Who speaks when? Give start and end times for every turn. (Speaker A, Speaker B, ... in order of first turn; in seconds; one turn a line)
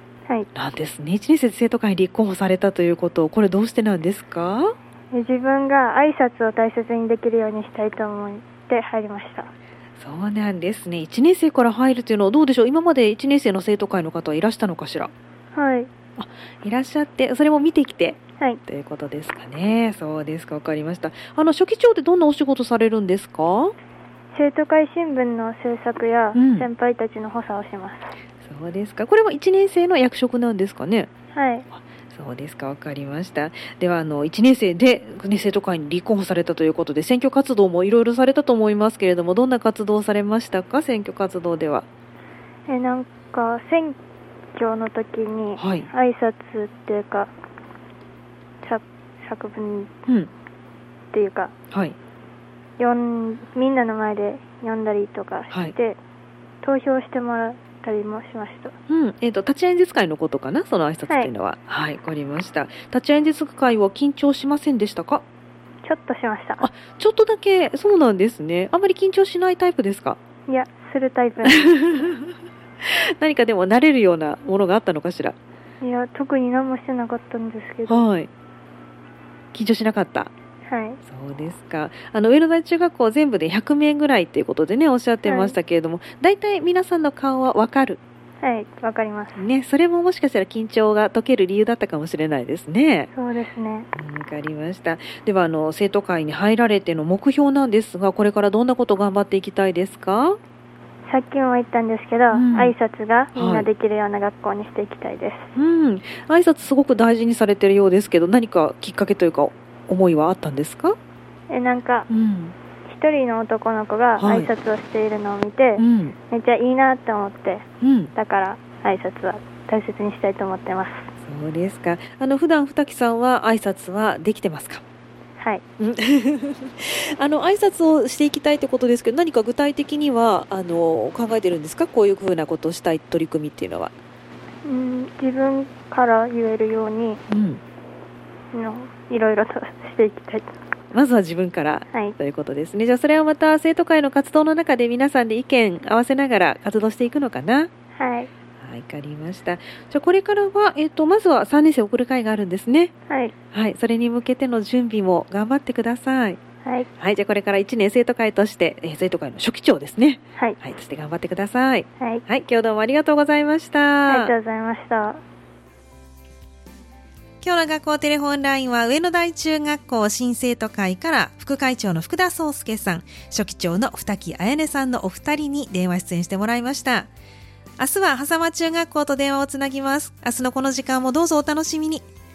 Speaker A: 0.5-4.7
Speaker B: 5.1-9.5
Speaker A: 10.0-15.1
Speaker B: 15.5-15.9
Speaker A: 16.2-23.7
Speaker B: 24.3-28.1
Speaker A: 26.3-26.7
Speaker A: 28.4-31.1
Speaker B: 31.3-31.6
Speaker A: 31.7-41.9
Speaker B: 42.7-44.0
Speaker B: 44.5-47.3
Speaker A: 45.6-45.9
Speaker B: 48.6-49.9
Speaker B: 51.1-51.5
Speaker B: 52.8-56.0
Speaker B: 56.6-58.7
Speaker A: 58.9-65.2
Speaker B: 65.8-66.6
Speaker A: 66.6-70.2
Speaker B: 70.5-71.8
Speaker A: 71.4-72.3
Speaker A: 72.8-75.3
Speaker B: 75.8-78.1
Speaker A: 77.9-78.3
Speaker A: 79.5-80.3
Speaker B: 80.7-81.0
Speaker A: 81.0-88.0
Speaker B: 85.2-85.5
Speaker B: 88.4-89.4
Speaker A: 89.3-93.1
Speaker B: 93.1-93.9
Speaker A: 93.9-100.4
Speaker B: 101.1-105.5
Speaker A: 102.3-102.7
Speaker A: 103.3-103.7
Speaker A: 105.5-111.0
Speaker B: 111.5-112.1
Speaker A: 112.1-112.5
Speaker B: 112.8-121.1
Speaker A: 114.2-114.5
Speaker A: 115.8-116.2
Speaker A: 117.8-118.1
Speaker A: 121.2-124.8
Speaker A: 125.8-133.9
Speaker B: 134.6-137.2
Speaker A: 137.3-137.6
Speaker B: 138.5-140.5
Speaker A: 140.9-147.7
Speaker B: 148.0-148.3
Speaker A: 148.6-152.9
Speaker B: 153.1-153.3
Speaker A: 153.5-156.4
Speaker A: 157.0-164.3
Speaker B: 164.1-165.2
Speaker A: 167.4-177.1
Speaker A: 177.8-182.1